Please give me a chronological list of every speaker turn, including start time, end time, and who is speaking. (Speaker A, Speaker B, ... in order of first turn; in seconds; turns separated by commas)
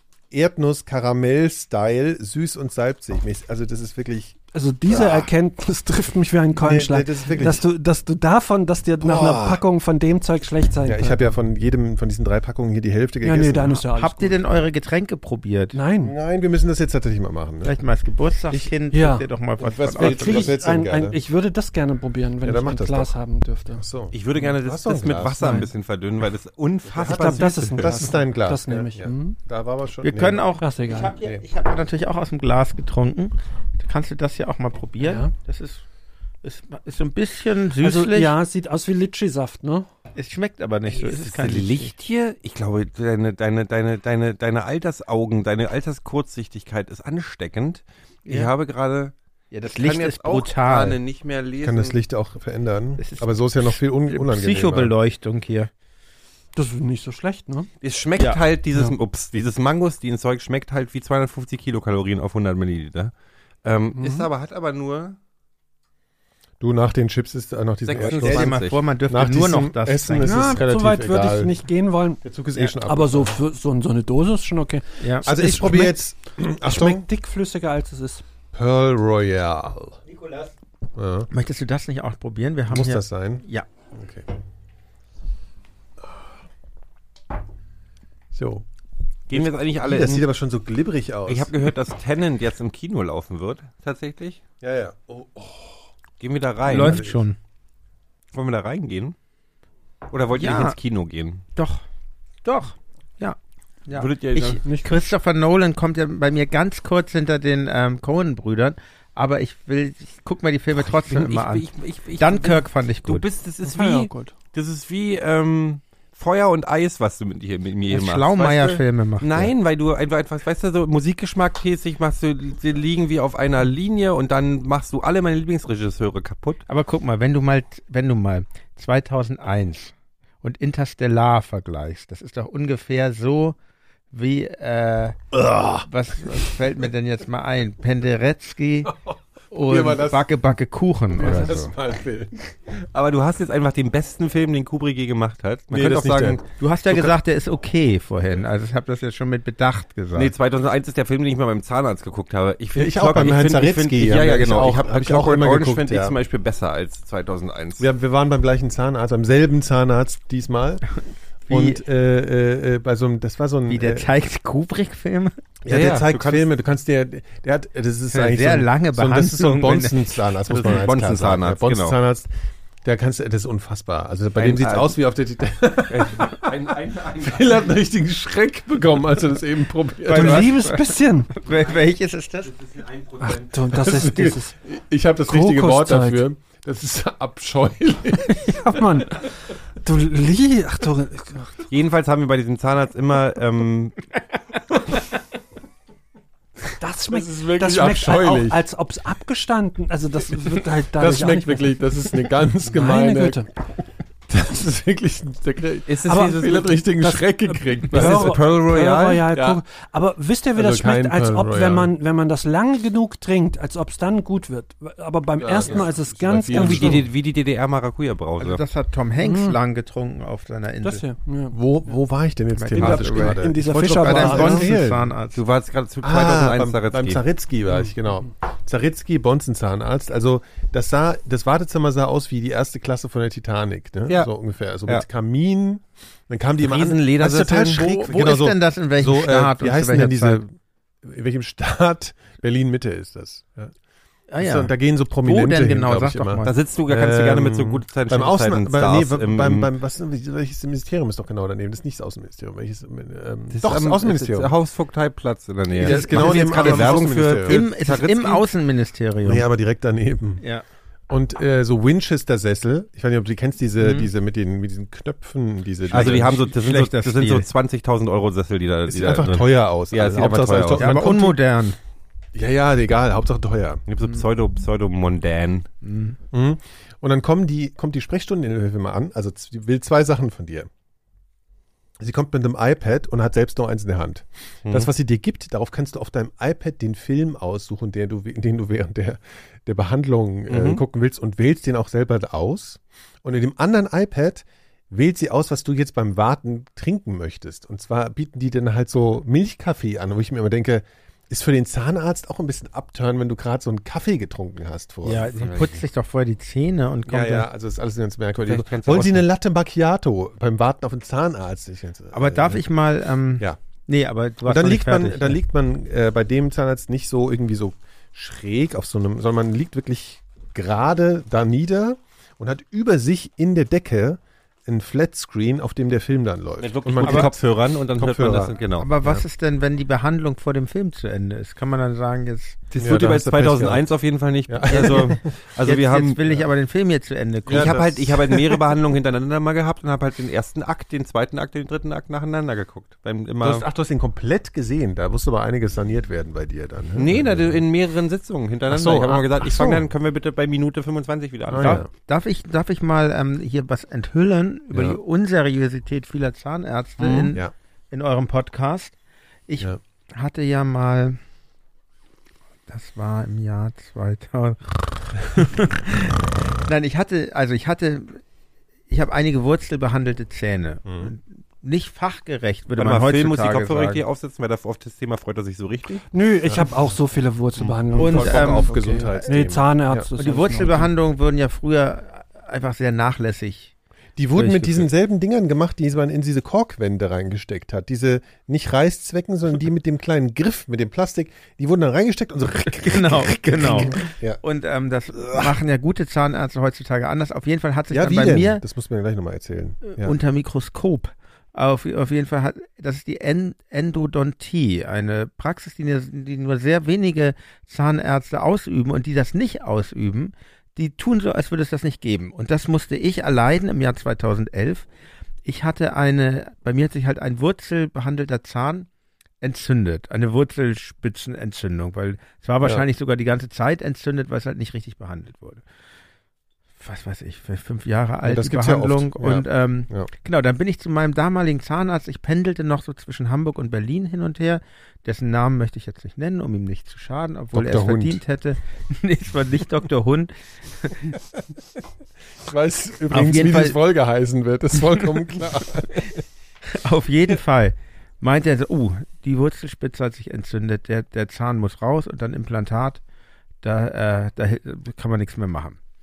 Speaker A: 0.3-5.3, Speaker B: 4.5-11.3, Speaker A: 6.5-7.7, Speaker A: 9.0-9.6, Speaker A: 10.8-13.8, Speaker B: 13.2-14.4, Speaker C: 13.9-15.8, Speaker B: 15.7-16.1, Speaker A: 16.0-17.8, Speaker C: 17.6-20.5, Speaker B: 18.9-19.2, Speaker A: 19.6-21.2, Speaker B: 19.9-23.8, Speaker A: 22.4-23.1, Speaker A: 23.7-25.6, Speaker D: 24.1-27.9, Speaker B: 25.4-25.7, Speaker A: 26.9-30.5, Speaker B: 27.0-29.4, Speaker C: 30.0-35.8, Speaker B: 30.6-31.1, Speaker B: 35.0-35.3, Speaker C: 36.4-38.3, Speaker B: 37.8-39.9, Speaker C: 40.1-41.9, Speaker D: 40.9-49.1, Speaker C: 49.5-51.0, Speaker D: 49.7-52.0, Speaker A: 51.6-54.9, Speaker C: 53.0-55.7, Speaker B: 56.5-57.7, Speaker D: 57.8-63.1, Speaker D: 63.6-65.2, Speaker B: 64.0-64.3, Speaker A: 66.6-71.6, Speaker D: 67.8-68.8, Speaker C: 68.0-70.6, Speaker B: 70.2-76.0, Speaker A: 72.2-73.3, Speaker C: 75.0-75.3, Speaker A: 75.2-77.0, Speaker B: 76.5-78.2, Speaker A: 78.5-80.0, Speaker C: 80.1-80.5, Speaker A: 81.0-81.3, Speaker C: 81.3-83.7, Speaker A: 82.7-84.3, Speaker A: 86.0-86.4, Speaker A: 88.3-88.6, Speaker D: 89.3-90.2, Speaker A: 89.3-91.5, Speaker D: 91.3-94.4, Speaker A: 94.6-95.9, Speaker D: 96.2-97.0, Speaker C: 96.7-97.4, Speaker A: 96.7-97.2, Speaker D: 98.3-99.1, Speaker D: 100.1-101.4, Speaker C: 100.3-100.8, Speaker C: 101.5-101.8, Speaker C: 102.4-111.7, Speaker D: 103.9-104.7, Speaker B: 104.6-104.9, Speaker D: 110.8-126.6, Speaker C: 112.2-113.2, Speaker B: 113.6-114.3, Speaker C: 117.9-119.5, Speaker C: 126.7-133.6, Speaker C: 134.1-135.2, Speaker A: 135.3-136.6, Speaker C: 135.8-138.9, Speaker A: 138.8-140.3, Speaker C: 139.5-141.7, Speaker A: 141.1-142.6, Speaker D: 142.8-147.2, Speaker A: 145.7-146.4, Speaker C: 146.6-150.3, Speaker D: 150.1-157.8, Speaker A: 152.7-156.2, Speaker A: 157.8-160.8, Speaker A: 161.5-164.1, Speaker C: 161.5-161.8, Speaker C: 163.7-165.4, Speaker A: 165.6-172.3, Speaker D: 165.7-166.5, Speaker C: 168.1-170.0, Speaker D: 170.5-172.0, Speaker A: 172.8-180.5, Speaker D: 174.3-174.9, Speaker D: 175.9-177.7, Speaker C: 180.0-182.5, Speaker B: 180.1-181.3, Speaker D: 181.4-181.8, Speaker D: 182.4-183.9, Speaker B: 183.2-184.5, Speaker A: 183.7-188.8, Speaker B: 185.3-186.2, Speaker B: 188.4-191.6, Speaker D: 191.7-194.0, Speaker B: 196.8-201.8, Speaker A: 197.1-198.6, Speaker A: 200.9-203.5, Speaker B: 202.6-203.5, Speaker A: 204.3-208.4, Speaker D: 205.9-206.8, Speaker B: 206.1-217.0, Speaker D: 207.9-209.3, Speaker A: 209.3-209.6, Speaker A: 210.6-211.9, Speaker A: 215.4-217.1, Speaker D: 216.5-218.6, Speaker C: 218.4-221.0, Speaker B: 219.2-219.6, Speaker B: 220.8-222.0, Speaker A: 221.5-225.1, Speaker C: 222.5-225.4, Speaker B: 222.7-224.7, Speaker D: 225.3-227.2, Speaker A: 226.0-243.7, Speaker D: 236.6-238.2, Speaker C: 237.7-240.4, Speaker C: 244.3-244.7, Speaker A: 244.4-254.5, Speaker C: 245.2-246.5, Speaker D: 246.4-249.7, Speaker D: 253.5-258.4, Speaker A: 255.7-257.6, Speaker C: 255.7-259.4, Speaker A: 259.2-260.4, Speaker A: 261.1-266.5, Speaker C: 265.9-267.5, Speaker D: 265.9-270.9, Speaker A: 268.9-271.4, Speaker C: 270.8-271.8, Speaker A: 272.3-273.8, Speaker D: 273.9-275.7, Speaker C: 275.8-276.2, Speaker A: 276.3-280.7, Speaker A: 282.0-305.5, Speaker D: 290.5-290.8, Speaker C: 305.0-307.5, Speaker D: 305.4-305.8, Speaker A: 307.1-312.6, Speaker D: 308.4-309.2, Speaker C: 312.1-315.4, Speaker A: 314.4-327.4, Speaker D: 326.6-328.9, Speaker C: 327.0-327.3, Speaker A: 328.0-329.2, Speaker C: 328.8-332.6, Speaker D: 332.7-336.2, Speaker A: 332.8-333.8, Speaker A: 334.5-335.3, Speaker C: 334.7-337.9, Speaker A: 337.5-338.6, Speaker D: 337.5-343.7, Speaker A: 343.4-347.6, Speaker D: 346.9-351.8, Speaker A: 348.7-349.9, Speaker A: 351.5-351.9, Speaker C: 351.6-358.9, Speaker A: 354.7-355.0, Speaker D: 357.0-357.3, Speaker C: 359.5-361.2, Speaker C: 362.7-368.2, Speaker C: 368.9-374.0, Speaker A: 370.9-371.1, Speaker D: 372.8-376.0, Speaker B: 376.1-380.9, Speaker A: 376.5-376.7, Speaker A: 377.6-380.1, Speaker C: 377.9-379.4, Speaker D: 378.1-378.6, Speaker C: 380.2-383.7, Speaker A: 384.1-394.4, Speaker C: 384.4-384.9, Speaker C: 392.8-398.6, Speaker A: 395.1-395.6, Speaker A: 397.9-400.1, Speaker C: 399.9-414.9, Speaker C: 415.4-418.9, Speaker C: 419.4-425.6, Speaker C: 426.8-441.1, Speaker A: 428.2-430.1, Speaker A: 437.5-438.2, Speaker A: 442.4-446.2, Speaker C: 443.1-443.8, Speaker C: 445.0-446.1, Speaker C: 446.6-453.0, Speaker C: 453.6-455.8